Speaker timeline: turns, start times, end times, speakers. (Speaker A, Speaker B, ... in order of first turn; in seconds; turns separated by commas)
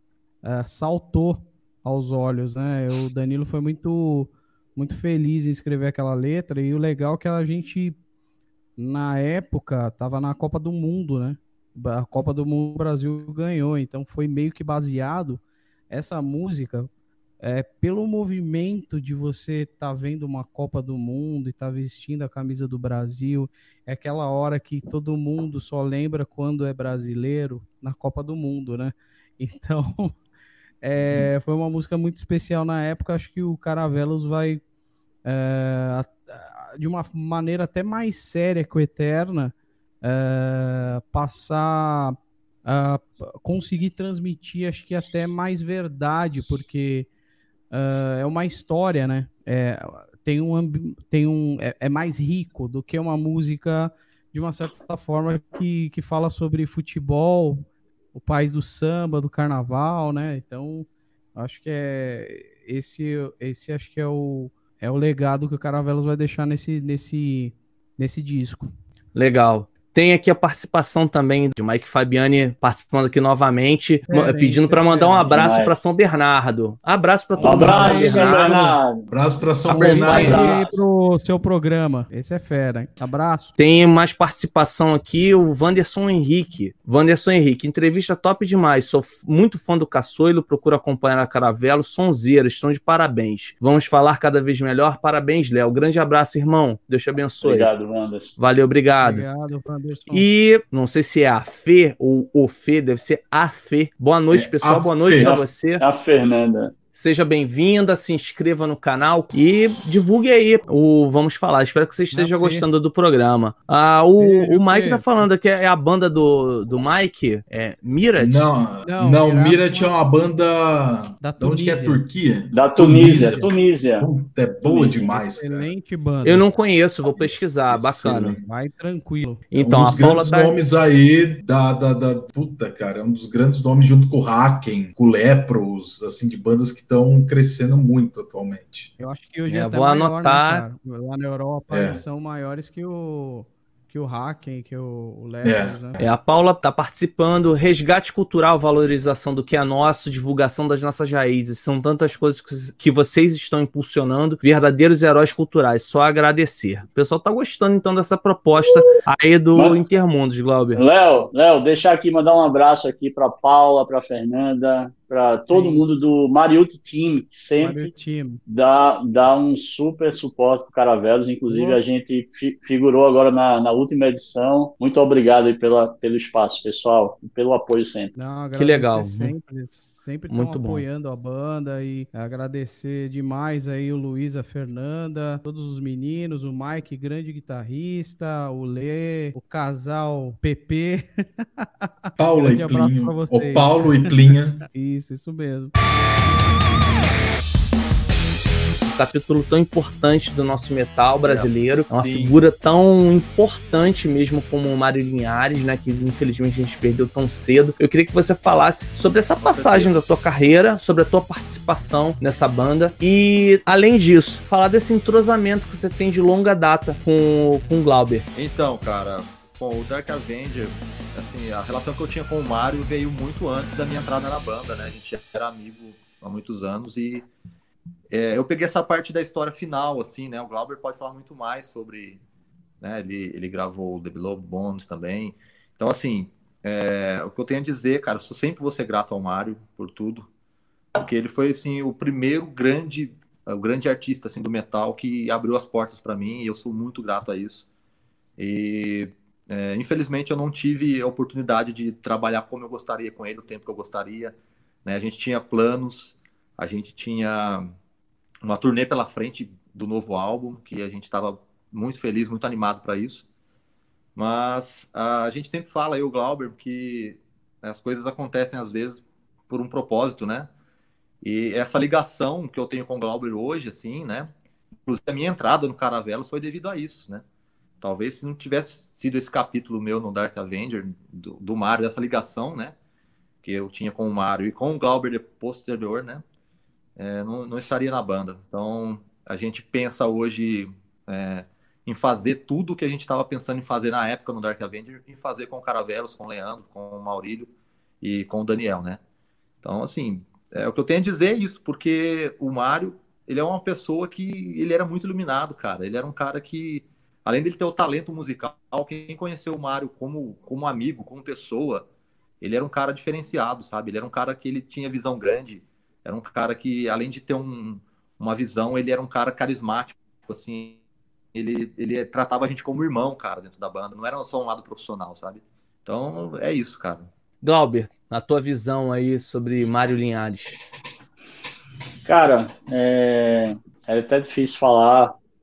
Speaker A: 0.4-8.0, Speaker A: 8.8-16.9, Speaker A: 17.4-30.1, Speaker A: 30.8-34.6, Speaker A: 35.2-47.1, Speaker A: 47.7-68.7, Speaker B: 69.1-78.7, Speaker A: 74.1-75.3, Speaker C: 75.2-75.7, Speaker A: 77.4-78.7, Speaker C: 77.4-79.0, Speaker D: 79.1-80.5, Speaker B: 79.7-80.4, Speaker C: 80.0-80.8, Speaker A: 80.1-83.5, Speaker B: 83.6-97.7, Speaker C: 97.4-98.3, Speaker B: 98.4-99.2, Speaker A: 99.0-100.3, Speaker B: 100.1-105.8, Speaker D: 104.3-105.3, Speaker C: 105.2-106.7, Speaker B: 106.9-118.5, Speaker A: 112.1-112.6, Speaker A: 114.2-115.2, Speaker D: 118.2-123.4, Speaker A: 118.8-120.0, Speaker A: 121.2-122.0, Speaker C: 122.5-124.1, Speaker A: 122.9-123.5, Speaker D: 124.0-125.7, Speaker A: 124.6-126.4, Speaker B: 126.2-128.3, Speaker D: 127.0-128.4, Speaker A: 128.4-129.4, Speaker B: 129.5-130.5, Speaker D: 129.6-138.9, Speaker A: 139.0-146.0, Speaker B: 139.5-140.6, Speaker D: 141.7-142.0, Speaker D: 145.4-146.0, Speaker B: 146.0-160.8, Speaker C: 160.7-167.9, Speaker A: 165.5-165.8, Speaker A: 167.6-168.4, Speaker C: 168.5-178.1, Speaker A: 171.5-171.8, Speaker A: 178.1-195.7, Speaker B: 178.5-179.3, Speaker B: 180.3-180.8, Speaker D: 192.2-194.6, Speaker B: 198.8-218.2, Speaker E: 201.2-202.5, Speaker E: 209.4-210.0, Speaker E: 218.3-227.3, Speaker E: 228.1-232.2, Speaker E: 232.8-240.3, Speaker E: 240.9-247.7, Speaker E: 248.4-257.7, Speaker E: 258.4-263.2, Speaker E: 264.1-270.5, Speaker E: 271.2-274.3, Speaker E: 274.9-277.2, Speaker E: 277.8-282.8, Speaker E: 283.4-286.2, Speaker E: 287.0-297.5, Speaker E: 298.0-299.0, Speaker E: 299.6-311.9, Speaker E: 312.4-320.8, Speaker E: 321.3-327.1, Speaker B: 327.4-330.6, Speaker C: 332.0-335.1